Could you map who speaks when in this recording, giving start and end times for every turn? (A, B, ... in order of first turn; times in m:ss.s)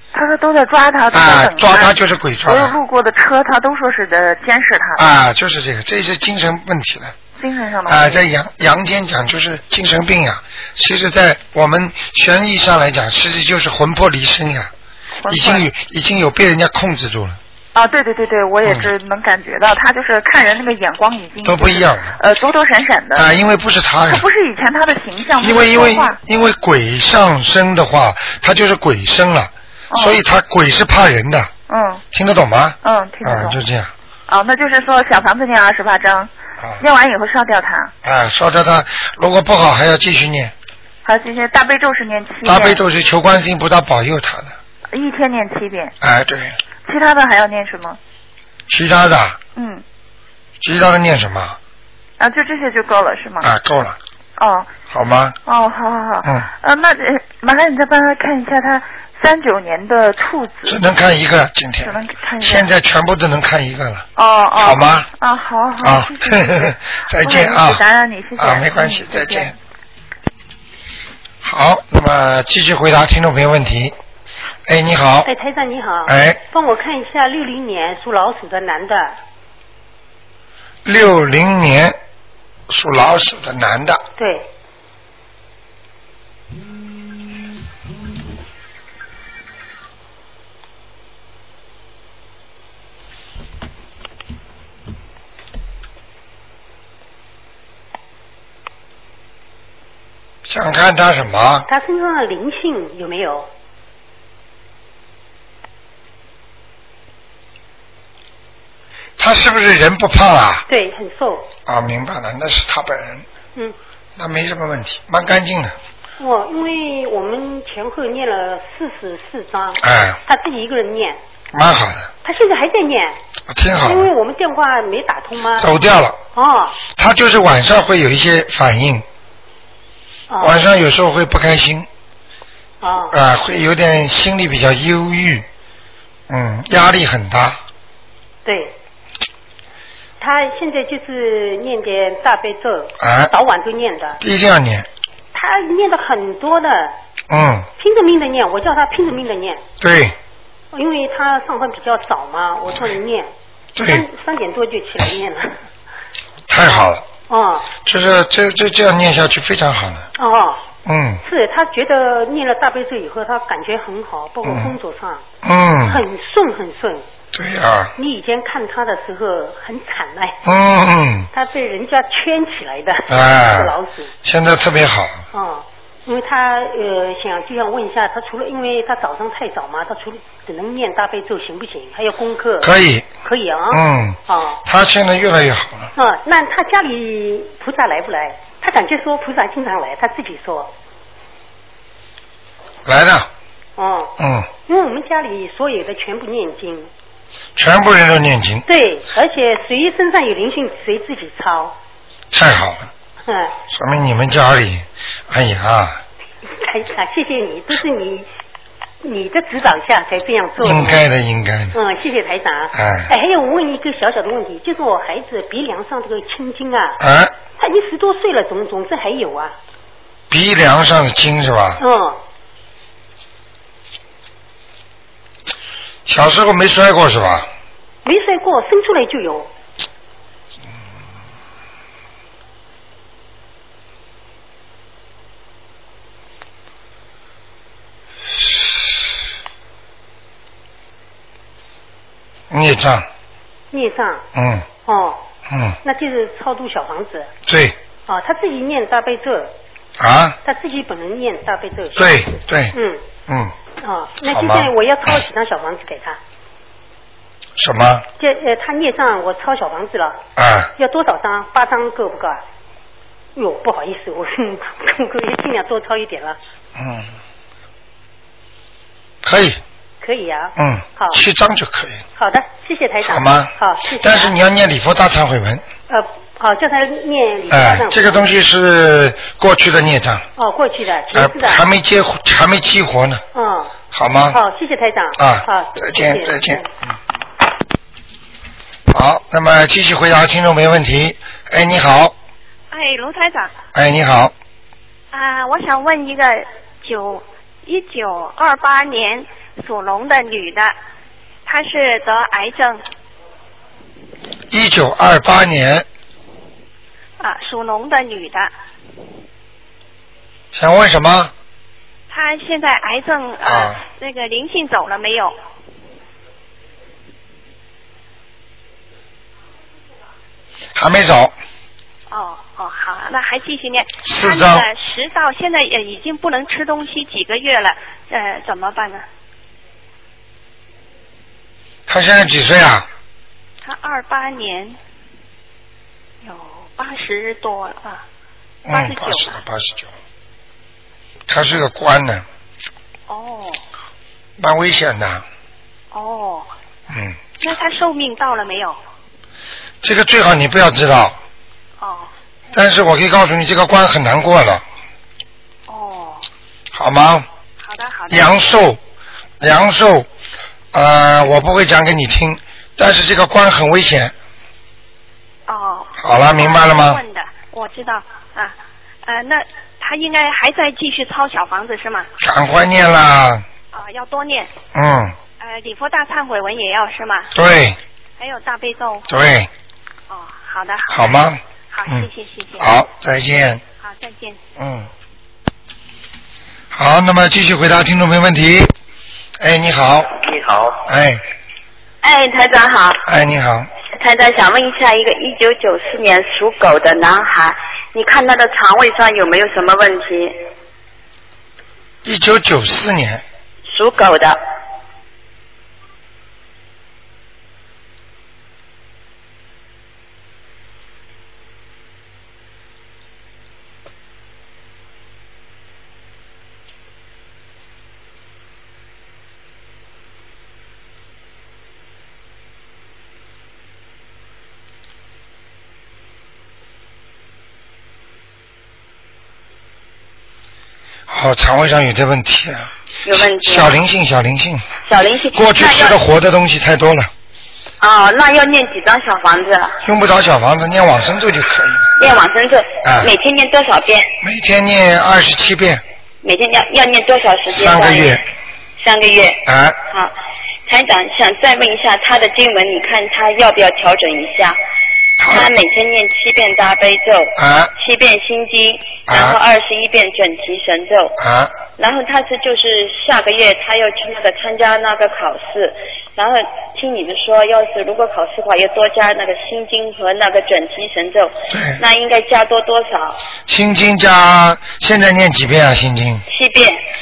0:00.1-0:05.0 A
0:01.1-0:02.8 B
0:05.0-0:07.2 B
0:07.4-0:08.3 A
0:07.9-0:14.7 B
0:15.2-0:15.7 A
0:15.3-0:17.4 B
0:17.7-0:23.3 A
0:18.6-0:18.9 B
0:21.4-0:22.2 B
0:23.2-0:24.2 B
0:24.1-0:26.2 A
0:25.4-0:31.5 B
0:29.9-0:30.2 A
0:31.7-0:32.0 A
0:32.1-0:33.9 B
0:32.8-0:33.6 A
0:34.3-0:37.9 A
0:38.0-0:40.5 B
0:41.0-0:42.8 A
0:42.4-0:44.6 B
0:44.9-0:46.0 A
0:46.0-0:46.6 B
0:46.8-0:48.0 A
0:48.7-0:49.4 B
0:49.6-0:49.8 A
0:50.6-0:51.6 B
0:52.2-0:53.5 A
0:53.4-0:54.0 B
0:54.4-0:54.8 A
0:54.9-0:55.4 B
0:55.4-1:00.9 A
0:56.2-0:56.5 B
1:00.7-1:04.0 B
1:01.8-1:02.7 A
1:04.2-1:09.6 A
1:04.6-1:05.1 B
1:05.8-1:07.8 B
1:08.4-1:09.5 B
1:11.4-1:14.0 B
1:14.7-1:15.3 B
1:15.2-1:19.2 C
1:16.1-1:16.4 B
1:20.8-1:22.0 B
1:22.7-1:24.0 B
1:24.2-1:24.5 C
1:40.5-1:41.7 B
1:41.7-1:43.5 C
1:49.2-1:50.6 B
1:50.7-1:51.5 C
1:51.7-1:53.2 B
1:54.2-1:55.8 B
1:56.2-2:01.2 C
1:59.8-2:00.2 B
2:01.5-2:02.1 B
2:02.2-2:03.2 C
2:03.5-2:04.1 B
2:03.7-2:05.7 C
2:05.6-2:06.2 B
2:06.3-2:06.8 C
2:06.9-2:09.0 B
2:10.3-2:10.7 C
2:10.4-2:11.9 B
2:12.8-2:13.2 C
2:13.1-2:15.4 B
2:16.3-2:17.6 B
2:18.4-2:18.7 C
2:20.2-2:24.2 C
2:23.0-2:23.3 B
2:24.2-2:24.9 B
2:25.3-2:27.0 C
2:27.3-2:27.7 B
2:27.8-2:29.6 C
2:29.8-2:30.1 B
2:30.7-2:35.6 C
2:33.8-2:34.0 B
2:36.5-2:37.0 B
2:37.3-2:37.7 C
2:37.8-2:40.1 B
2:40.2-2:40.6 C
2:40.9-2:41.2 B
2:41.2-2:45.2 C
2:44.4-2:44.8 B
2:45.4-2:46.0 B
2:45.9-2:47.1 C
2:47.3-2:47.9 B
2:48.0-2:50.4 C
2:50.4-2:51.3 B
2:51.3-2:54.1 C
2:53.1-2:55.2 B
2:55.3-3:02.7 C
3:02.6-3:03.1 B
3:03.2-3:04.6 C
3:03.7-3:05.9 B
3:06.0-3:10.7 C
3:12.9-3:13.3 B
3:13.8-3:14.1 C
3:14.2-3:14.5 B
3:14.7-3:16.9 C
3:17.6-3:18.6 B
3:18.7-3:21.8 C
3:22.3-3:22.9 B
3:23.3-3:23.5 C
3:23.7-3:26.0 B
3:26.6-3:28.3 C
3:29.0-3:31.0 C
3:30.6-3:31.7 B
3:31.7-3:37.0 C
3:32.7-3:33.1 B
3:37.0-3:37.3 B
3:37.6-3:39.6 C
3:40.3-3:41.8 B
3:41.8-3:42.2 C
3:46.1-3:47.5 B
3:48.0-3:49.5 C
4:02.5-4:03.1 B
4:03.7-4:04.2 C
4:04.4-4:04.6 B
4:04.8-4:05.2 C
4:05.5-4:05.8 B
4:05.8-4:07.3 C
4:07.5-4:07.8 B
4:08.1-4:09.5 C
4:10.0-4:10.4 B
4:10.4-4:13.0 C
4:12.0-4:12.8 B
4:13.3-4:13.5 B
4:13.8-4:16.2 C
4:14.3-4:14.7 B
4:17.6-4:18.0 B
4:18.2-4:20.2 C
4:20.4-4:20.7 B
4:20.8-4:22.4 C
4:23.4-4:26.4 C
4:26.8-4:27.1 B
4:29.2-4:29.6 B
4:30.0-4:31.2 C
4:30.6-4:32.0 B
4:32.2-4:34.4 C
4:33.0-4:35.6 B
4:35.9-4:38.3 C
4:37.5-4:40.2 B
4:40.4-4:41.7 C
4:41.1-4:43.2 B
4:43.3-4:46.7 C
4:43.9-4:44.4 B
4:45.2-4:46.6 B
4:48.9-4:52.1 B
4:52.7-4:53.5 D
4:53.7-4:54.3 B
4:55.1-5:00.8 D
5:01.5-5:02.8 D
5:04.5-5:05.9 B
5:07.2-5:08.5 D
5:10.5-5:11.3 B
5:12.1-5:15.4 D
5:13.4-5:13.8 B
5:20.8-5:21.3 B
5:22.1-5:29.0 D
5:24.0-5:24.7 B
5:31.9-5:32.9 B
5:33.6-5:34.8 D
5:36.2-5:38.0 D
5:38.7-5:39.9 B
5:38.7-5:39.4 D
5:41.3-5:42.2 B
5:43.1-5:43.6 D
5:44.4-5:45.2 B
5:45.9-5:46.5 D
5:46.9-5:47.2 B
5:47.4-5:48.8 D
5:49.8-5:51.2 B
5:51.8-5:52.1 D
5:52.5-5:54.6 B
5:55.7-5:56.3 D
5:56.7-5:57.2 B
5:57.6-5:58.4 D
5:58.1-5:58.8 B
5:59.4-6:00.1 B
6:00.7-6:04.1 B
6:05.5-6:12.1 D
6:06.0-6:07.0 B
6:12.2-6:13.4 B
6:13.7-6:14.5 D
6:14.7-6:15.2 B
6:15.4-6:17.3 D
6:17.4-6:17.8 B
6:18.2-6:19.1 D
6:19.1-6:19.5 B
6:20.1-6:22.7 D
6:20.9-6:23.6 B
6:23.8-6:24.4 D
6:24.6-6:24.9 B
6:26.7-6:28.7 B
6:29.4-6:31.2 B
6:32.0-6:33.0 E
6:33.0-6:33.7 B
6:34.0-6:40.4 E
6:42.0-6:43.2 B
6:43.7-6:44.4 E
7:11.1-7:14.6 B
7:13.0-7:13.8 E
7:14.9-7:16.0 E
7:15.3-7:17.1 B
7:17.8-7:19.8 E
7:19.8-7:21.9 B
7:22.0-7:24.2 E
7:22.8-7:23.1 B
7:24.2-7:25.8 B
7:26.2-7:28.2 E
7:27.5-7:28.2 B
7:28.8-7:30.1 E
7:29.4-7:29.8 B
7:30.7-7:34.6 E
7:35.2-7:35.5 B
7:35.3-7:41.2 E
7:37.4-7:37.7 B
7:39.1-7:39.4 B
7:41.2-7:41.5 B
7:41.8-7:53.2 E
7:51.5-7:51.8 B
7:53.5-7:56.2 B
7:56.3-7:56.8 E